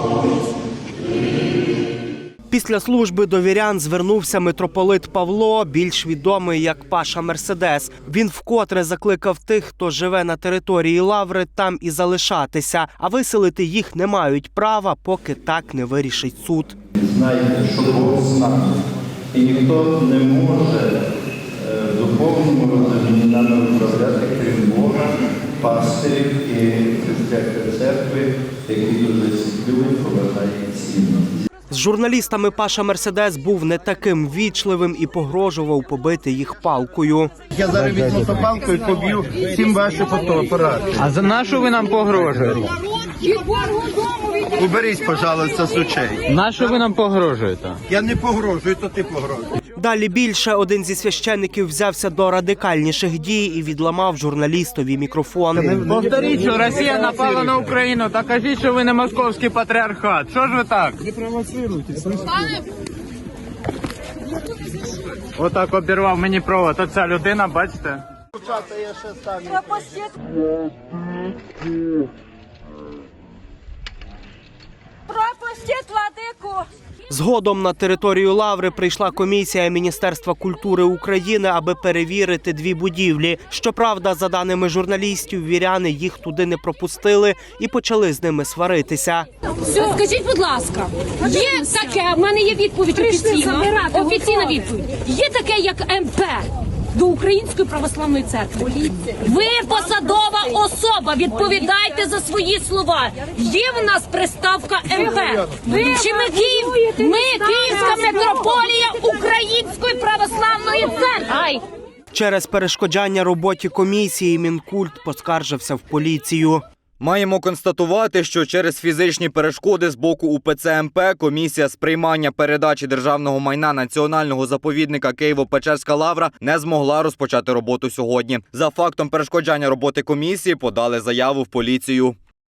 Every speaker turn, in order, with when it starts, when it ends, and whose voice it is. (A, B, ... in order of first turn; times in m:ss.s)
0:02.5-0:16.8 A
0:16.9-0:18.8 B
0:19.3-0:31.4 B
0:31.7-0:37.3 A
0:37.5-0:41.1 B
0:41.0-0:42.7 C
0:43.7-0:46.3 B
0:46.3-0:47.8 C
0:47.9-0:49.5 B
0:49.7-0:56.0 A
0:55.8-1:02.5 C
1:05.3-1:08.0 C
1:08.4-1:09.7 B
1:15.1-1:16.6 D
1:17.1-1:29.3 A
1:29.6-1:51.6 D
1:52.1-1:56.6 A
1:57.0-2:12.1 E